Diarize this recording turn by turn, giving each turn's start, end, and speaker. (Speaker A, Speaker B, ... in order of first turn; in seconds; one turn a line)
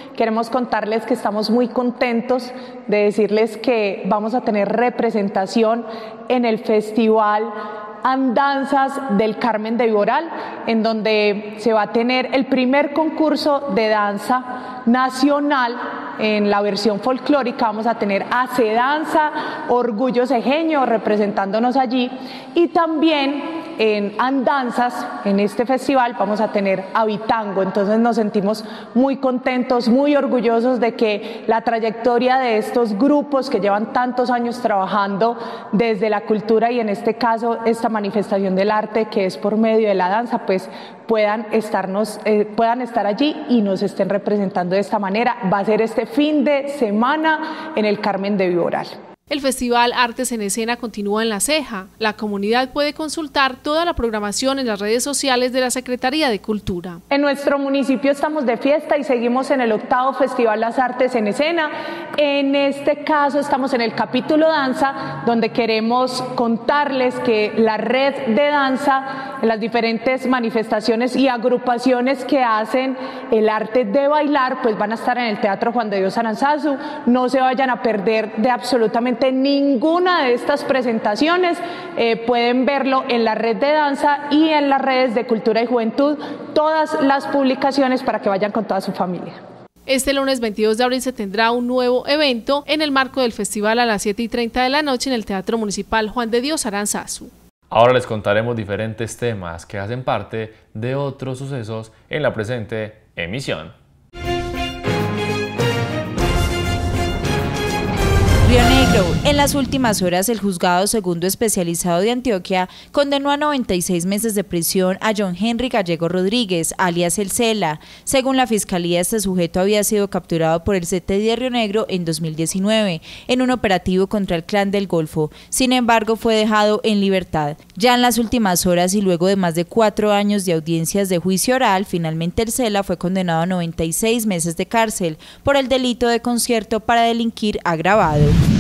Speaker A: 0.2-48.9
Speaker B: 49.3-57.0
Speaker A: 57.1-89.4
Speaker B: 89.9-97.3
Speaker C: 97.7-103.7
Speaker D: 108.5-138.4